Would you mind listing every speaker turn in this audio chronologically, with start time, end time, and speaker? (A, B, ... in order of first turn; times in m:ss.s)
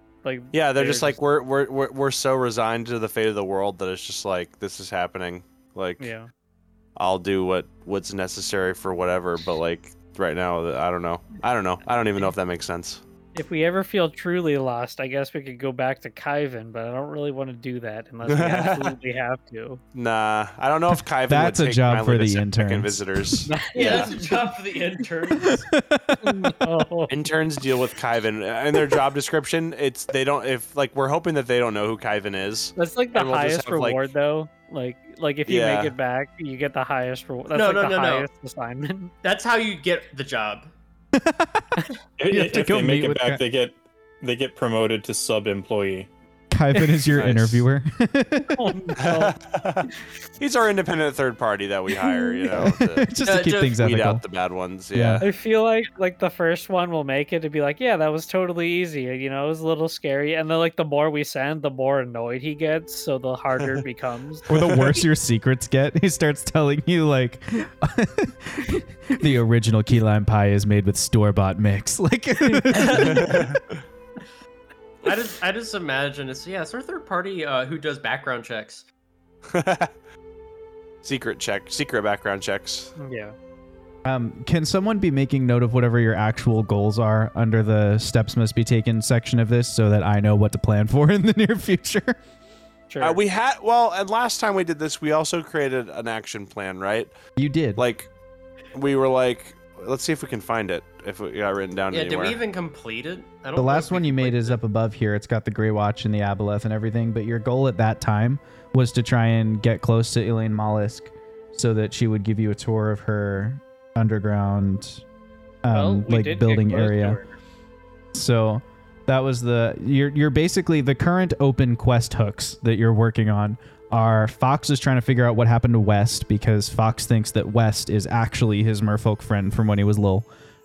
0:00.2-0:01.2 A
0:00.5-0:06.1 B
0:06.0-0:06.3 A
0:07.0-0:13.0 B
0:13.4-0:19.8 A
0:18.3-0:19.0 B
0:20.0-0:24.1 B
0:20.9-0:23.5 C
0:23.5-0:24.5 A
0:23.7-0:25.7 D
0:25.4-0:26.6 C
0:26.2-0:27.2 A
0:27.1-0:34.0 B
0:32.8-0:39.1 A
0:35.5-0:36.0 B
0:37.5-0:38.3 D
0:39.2-0:40.7 D
0:41.2-0:41.7 C
0:42.2-0:46.1 E
0:42.3-0:43.4 C
0:46.5-0:48.7 C
0:46.8-0:47.1 A
0:47.1-0:47.6 B
0:48.5-0:49.4 A
0:49.0-0:53.2 B
0:52.1-0:52.5 A
0:52.5-0:54.2 C
0:53.2-0:53.8 D
0:53.8-0:55.3 B
0:54.9-0:55.2 C
0:55.2-1:04.5 A
1:04.5-1:13.5 C
1:04.7-1:05.0 B
1:12.5-1:13.4 A
1:13.0-1:13.8 B
1:15.0-1:18.9 D
1:19.5-1:19.9 B
1:21.0-1:22.9 B
1:23.0-1:23.4 A
1:24.0-1:32.2 C
1:32.9-1:33.2 A
1:33.0-1:37.1 B
1:37.4-1:37.8 C
1:37.8-1:38.1 B
1:38.7-1:42.4 B
1:41.9-1:44.6 D
1:43.6-1:55.0 C
1:55.6-1:57.2 C
1:55.7-1:57.4 A
1:58.1-2:10.3 C